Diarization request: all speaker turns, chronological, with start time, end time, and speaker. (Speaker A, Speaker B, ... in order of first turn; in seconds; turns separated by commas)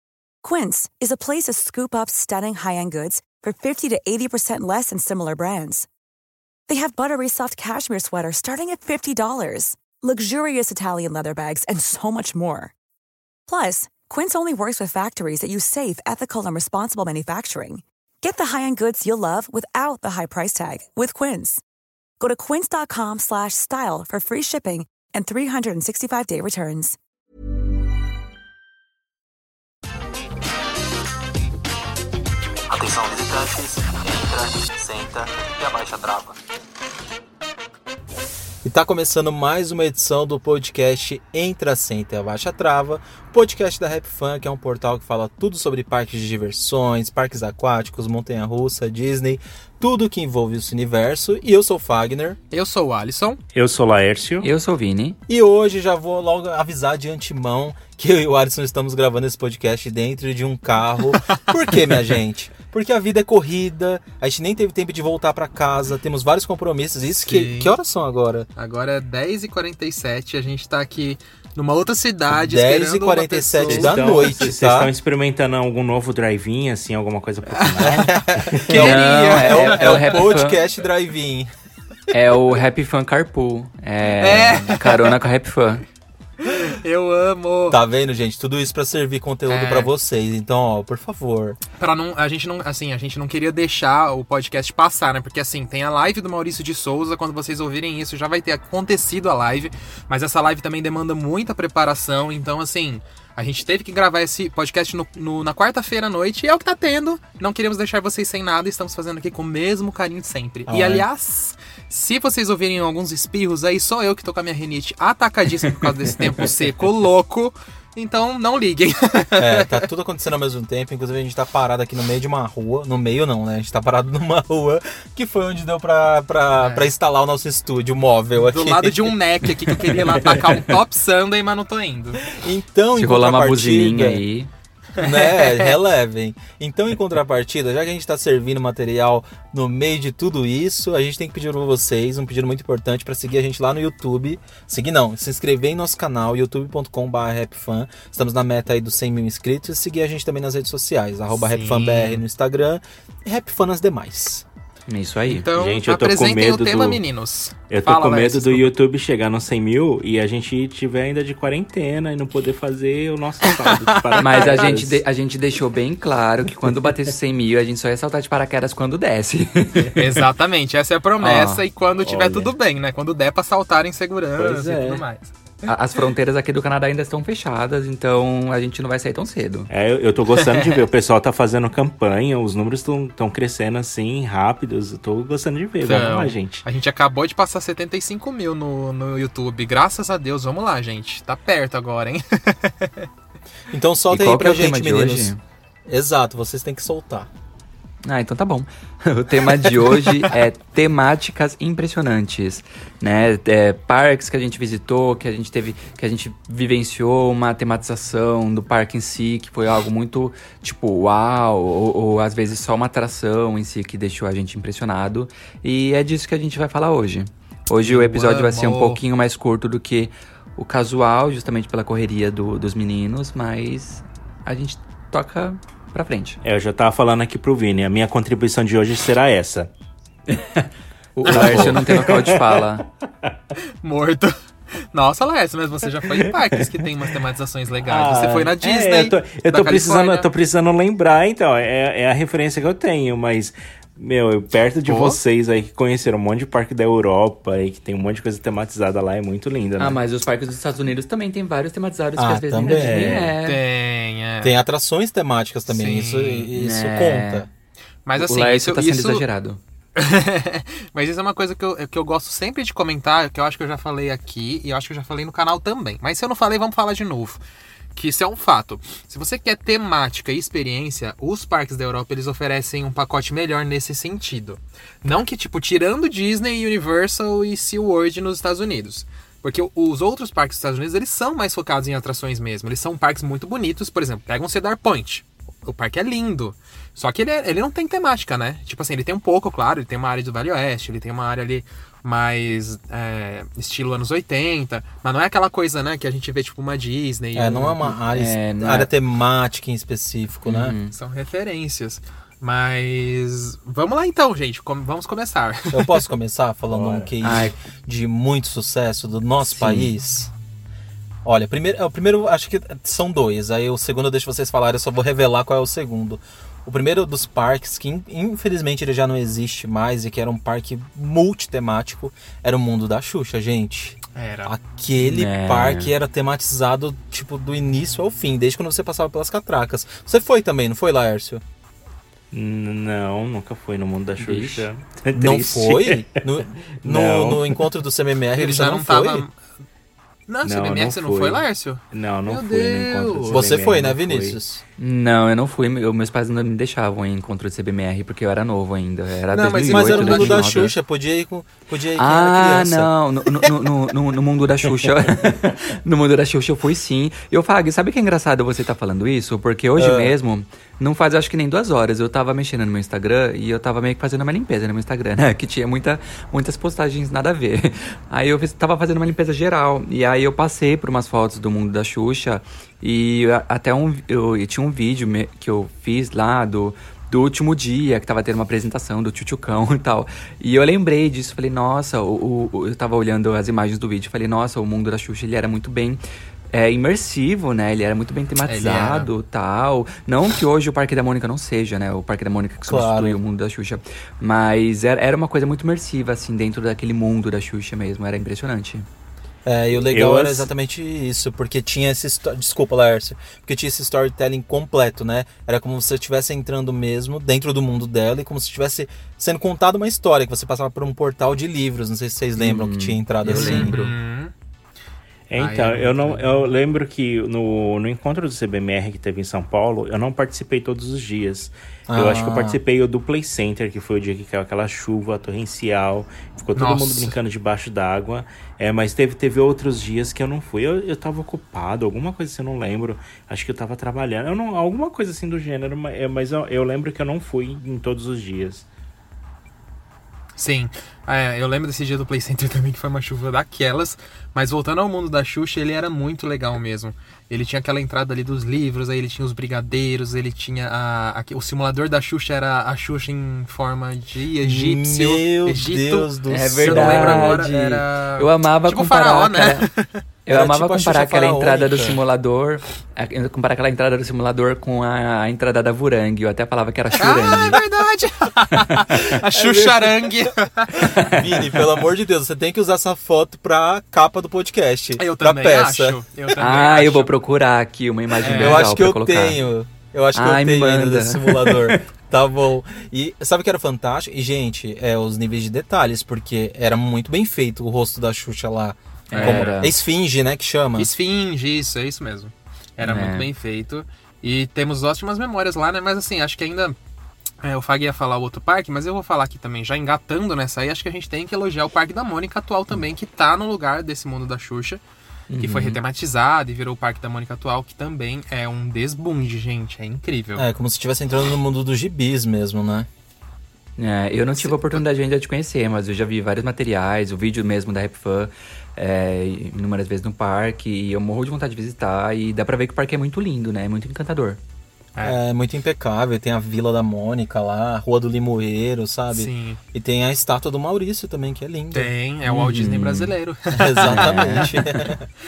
Speaker A: 0.4-5.9, Speaker A: 6.7-12.7, Speaker A: 13.5-21.6, Speaker A: 22.2-27.0, Speaker B: 32.7-36.4, Speaker C: 38.6-52.4, Speaker D: 52.5-53.4, Speaker E: 53.5-54.5, Speaker F: 54.4-55.2, Speaker C: 55.3-68.5, Speaker D: 67.1-67.7, Speaker D: 68.5-74.3, Speaker C: 72.4-74.9, Speaker E: 73.7-78.7, Speaker D: 77.6-80.4, Speaker C: 77.8-81.5, Speaker F: 78.7-80.6, Speaker F: 82.1-85.8, Speaker D: 84.2-85.2, Speaker D: 86.4-87.8, Speaker C: 87.7-91.6, Speaker D: 89.5-89.9, Speaker D: 91.8-119.8, Speaker C: 110.7-111.1, Speaker C: 119.4-129.1, Speaker D: 126.6-126.9, Speaker D: 128.4-132.3, Speaker C: 132.3-134.2, Speaker F: 132.9-134.5, Speaker C: 135.0-154.4, Speaker D: 135.0-135.7, Speaker D: 151.4-152.2, Speaker F: 154.9-155.4, Speaker D: 155.3-158.7, Speaker E: 155.6-157.0, Speaker E: 157.7-165.0, Speaker D: 163.6-164.0, Speaker F: 164.2-169.9, Speaker D: 169.9-175.3, Speaker F: 171.2-171.6, Speaker E: 172.0-172.5, Speaker E: 174.4-175.0, Speaker F: 175.7-179.7, Speaker E: 179.7-186.6, Speaker D: 185.8-193.1, Speaker C: 193.7-195.3, Speaker F: 194.1-195.4, Speaker C: 195.9-197.3, Speaker F: 198.0-226.4, Speaker D: 217.8-219.0, Speaker E: 226.4-229.7, Speaker F: 230.3-232.8, Speaker E: 231.3-232.6, Speaker D: 231.3-231.7, Speaker D: 233.8-234.3, Speaker D: 234.9-240.3, Speaker E: 236.0-236.3, Speaker E: 237.8-250.0, Speaker D: 244.9-245.2, Speaker F: 249.8-253.6, Speaker C: 252.2-253.2, Speaker E: 252.7-253.3, Speaker D: 253.4-254.5, Speaker C: 254.4-257.5, Speaker D: 255.7-256.5, Speaker F: 256.6-257.4, Speaker D: 258.0-259.2, Speaker F: 258.2-259.6, Speaker D: 259.9-267.4, Speaker D: 267.9-297.9, Speaker C: 297.3-300.7, Speaker F: 298.1-298.9, Speaker F: 300.4-300.9, Speaker D: 300.9-306.0, Speaker C: 305.7-310.3, Speaker E: 306.7-307.1, Speaker F: 307.2-307.5, Speaker F: 309.5-309.9, Speaker C: 311.2-331.4, Speaker D: 324.1-324.5, Speaker F: 325.0-325.9, Speaker E: 332.3-336.1, Speaker F: 334.2-334.6, Speaker C: 335.1-339.2, Speaker E: 336.8-337.6, Speaker D: 338.4-339.3, Speaker D: 340.3-343.4, Speaker E: 340.4-344.4, Speaker C: 343.3-344.6, Speaker F: 344.8-350.7, Speaker D: 349.3-350.7, Speaker C: 349.7-352.9, Speaker F: 352.0-386.0, Speaker C: 359.8-360.1, Speaker F: 386.5-398.9, Speaker D: 388.4-389.1, Speaker C: 392.6-393.2, Speaker C: 399.4-413.7, Speaker E: 399.9-400.5, Speaker F: 412.4-413.9, Speaker D: 413.2-414.3, Speaker E: 415.3-438.6, Speaker D: 415.4-416.4, Speaker C: 421.9-422.6, Speaker D: 426.6-427.2, Speaker D: 440.4-460.0, Speaker C: 454.4-457.4, Speaker F: 456.3-459.7, Speaker F: 460.2-467.6, Speaker C: 460.3-462.0, Speaker D: 466.9-471.1, Speaker C: 469.3-476.0, Speaker D: 475.0-477.1, Speaker F: 476.4-479.4, Speaker D: 478.2-478.7, Speaker C: 478.3-490.9, Speaker F: 480.1-481.8, Speaker F: 489.1-489.7, Speaker D: 489.1-489.6, Speaker D: 490.8-496.8, Speaker F: 492.8-493.3, Speaker D: 497.4-504.8, Speaker F: 505.3-505.8, Speaker D: 505.4-510.4, Speaker C: 510.4-512.9, Speaker F: 513.8-524.4, Speaker D: 514.4-514.8, Speaker C: 525.0-531.9, Speaker D: 529.1-529.6, Speaker D: 531.7-534.7, Speaker F: 532.3-533.1, Speaker C: 533.5-535.0, Speaker F: 533.9-534.5